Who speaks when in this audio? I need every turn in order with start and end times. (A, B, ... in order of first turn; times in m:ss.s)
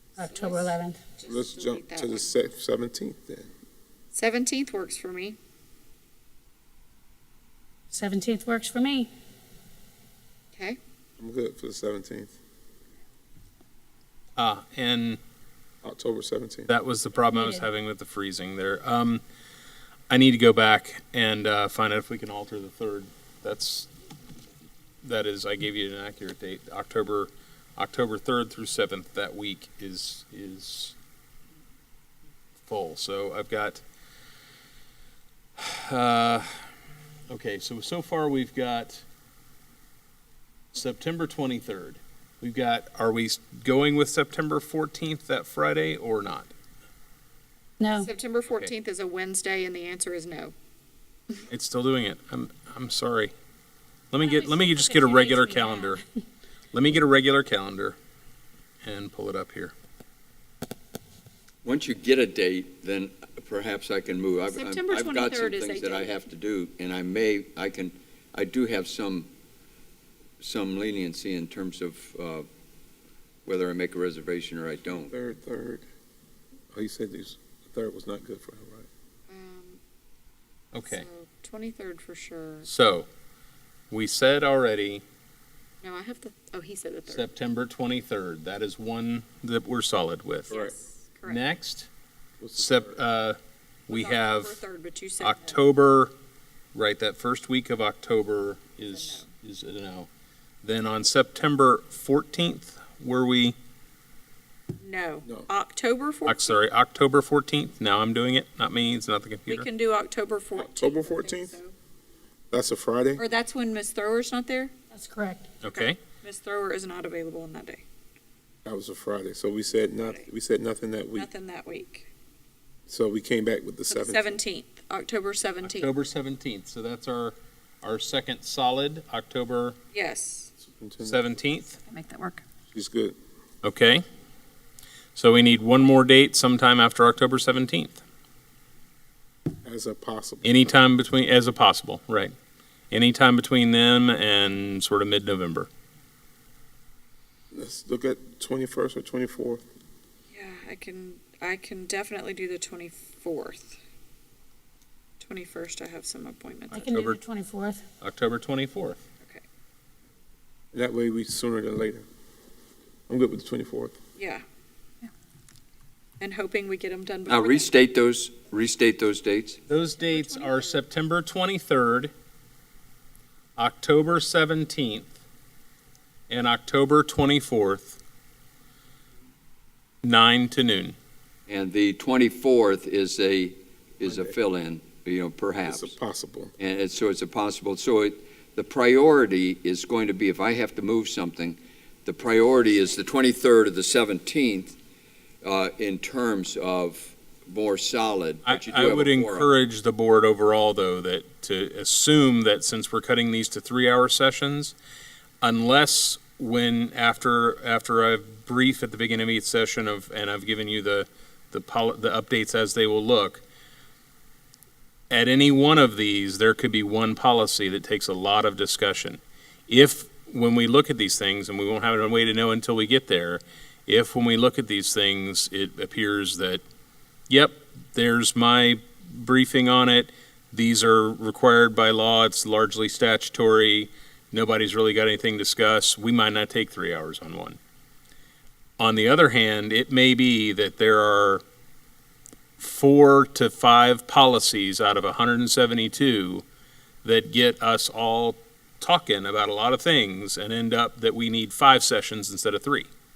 0:00.2-0:01.0 A
0:00.2-0:02.3 B
0:01.2-0:03.5 C
0:04.1-0:05.4 B
0:07.9-0:09.1 A
0:11.2-0:12.4 C
0:14.4-0:15.2 D
0:15.8-0:16.7 C
0:16.7-0:19.2 D
0:17.3-0:17.7 A
0:20.1-0:23.9 D
0:25.0-0:31.0 D
0:32.7-0:33.8 D
0:35.6-0:36.6 D
0:37.3-0:39.0 D
0:40.7-0:46.5 D
0:47.8-0:48.1 A
0:48.0-0:50.5 B
0:51.5-0:53.3 D
0:54.1-0:56.0 D
0:54.2-0:56.0 A
0:56.7-0:58.0 D
0:58.8-0:59.7 D
1:01.6-1:09.3 E
1:04.5-1:06.3 B
1:10.4-1:12.5 E
1:13.5-1:15.1 E
1:14.9-1:15.9 C
1:16.7-1:18.9 C
1:19.3-1:19.8 B
1:20.7-1:21.1 D
1:20.8-1:22.7 B
1:22.7-1:23.1 D
1:23.9-1:25.0 D
1:25.8-1:27.3 B
1:27.1-1:30.5 D
1:30.5-1:31.5 B
1:31.2-1:31.9 D
1:32.4-1:33.0 C
1:32.6-1:34.6 D
1:33.9-1:35.6 B
1:35.2-1:36.1 D
1:36.7-1:40.1 D
1:38.9-1:39.3 B
1:40.6-1:43.6 D
1:44.8-1:46.6 B
1:46.3-1:49.7 D
1:49.5-1:51.7 B
1:50.6-1:51.6 C
1:52.5-1:53.2 C
1:53.2-1:54.7 B
1:54.9-1:55.5 A
1:55.6-1:56.0 D
1:55.6-1:57.8 B
1:58.6-2:01.3 C
2:01.2-2:02.1 B
2:02.9-2:04.2 C
2:03.9-2:05.9 B
2:05.6-2:09.8 D
2:09.9-2:10.5 B
2:10.6-2:11.2 C
2:11.0-2:11.8 D
2:11.9-2:12.4 B
2:12.7-2:13.2 C
2:13.6-2:14.0 D
2:15.2-2:18.0 D
2:19.6-2:20.7 C
2:20.4-2:22.3 D
2:22.9-2:25.7 D
2:27.5-2:29.6 C
2:30.3-2:33.8 B
2:35.2-2:36.9 B
2:36.7-2:37.2 D
2:36.7-2:37.8 A
2:38.0-2:39.0 D
2:40.7-2:42.1 C
2:43.1-2:44.0 C
2:44.2-2:44.4 B
2:46.2-2:47.7 B
2:47.3-2:49.6 E
2:49.7-2:52.1 D
2:50.0-2:50.8 B
2:53.6-2:55.2 D
2:56.3-2:58.0 D
3:00.0-3:01.0 D
3:01.5-3:06.0 E
3:04.0-3:04.3 C
3:05.7-3:06.5 C
3:06.6-3:14.8 E
3:15.4-3:19.5 E
3:18.5-3:24.8 D
3:25.4-3:33.4 D
3:35.1-3:46.6 D
3:47.3-3:57.6 D
3:58.8-4:01.4 D
4:02.6-4:06.4 D
4:07.0-4:12.9 D